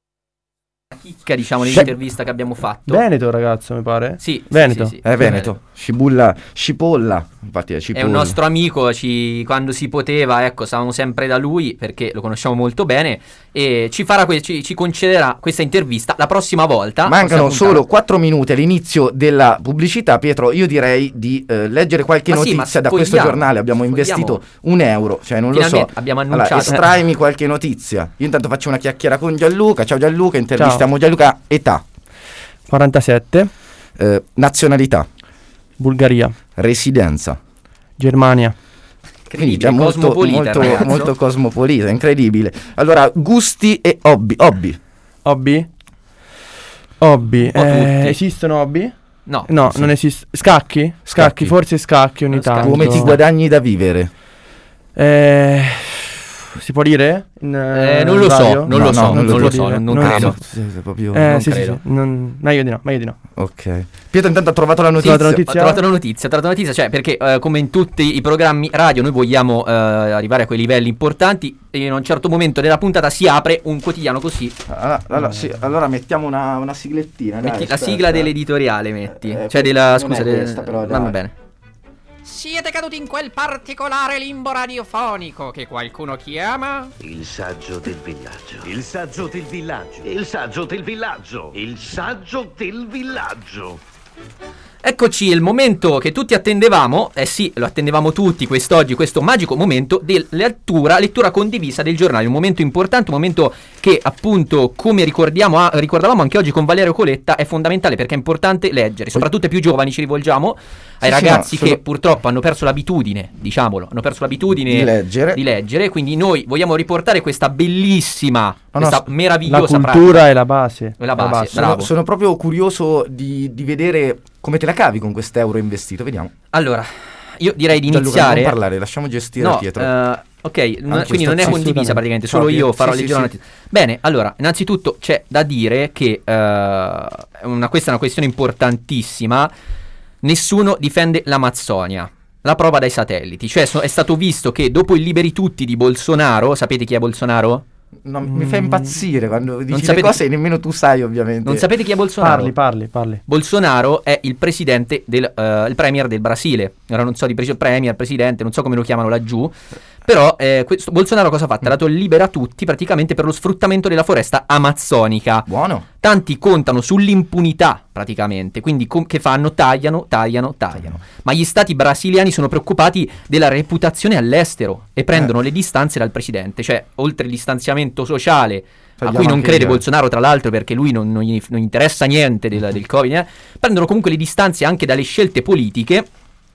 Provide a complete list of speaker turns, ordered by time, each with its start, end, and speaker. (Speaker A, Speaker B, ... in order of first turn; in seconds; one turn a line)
Speaker A: 1.0-3.0
Speaker B: 2.9-5.0
Speaker A: 4.2-5.5
Speaker C: 5.0-8.4
Speaker A: 7.9-17.8
Speaker C: 17.0-31.8
Speaker A: 22.3-24.4
Speaker A: 25.5-26.8
Speaker B: 30.6-30.9
Speaker B: 32.7-33.5
Speaker C: 34.0-35.1
Speaker B: 35.8-36.4
Speaker C: 36.5-37.4
Speaker B: 38.0-38.5
Speaker A: 39.3-41.1
Speaker C: 39.3-44.8
Speaker B: 45.2-45.7
Speaker B: 47.0-48.9
Speaker A: 47.4-48.2
Speaker A: 49.2-49.5
Speaker B: 49.4-53.2
Speaker C: 51.0-51.6
Speaker A: 52.3-53.2
Speaker C: 52.6-54.1
Speaker B: 55.0-60.5
Speaker A: 57.7-60.4
Speaker C: 58.7-61.3
Speaker B: 61.1-63.2
Speaker A: 61.2-61.8
Speaker C: 63.3-65.4
Speaker B: 65.0-65.8
Speaker A: 65.0-74.6
Speaker C: 74.7-78.3
Speaker A: 77.4-81.3
Speaker C: 79.1-81.2
Speaker D: 82.2-86.9
Speaker E: 87.0-93.8
Speaker A: 94.8-120.3
Speaker C: 111.0-111.8
Speaker C: 114.6-115.4
Speaker C: 118.7-119.1
Speaker B: 119.4-121.7
Speaker A: 121.0-121.9
Speaker C: 121.5-126.3
Speaker A: 126.5-128.6
Speaker C: 127.7-129.9
Speaker A: 129.4-139.5
Speaker C: 130.9-131.7
Speaker B: 131.1-132.1
Speaker C: 132.3-133.3
Speaker A: 140.2-147.6
Speaker C: 148.0-151.7
Speaker B: 148.2-149.0
Speaker A: 149.7-150.2
Speaker A: 151.4-152.5
Speaker B: 152.2-153.2
Speaker A: 153.2-165.5
Speaker C: 165.5-165.8
Speaker A: 166.0-186.1
Speaker C: 179.0-179.8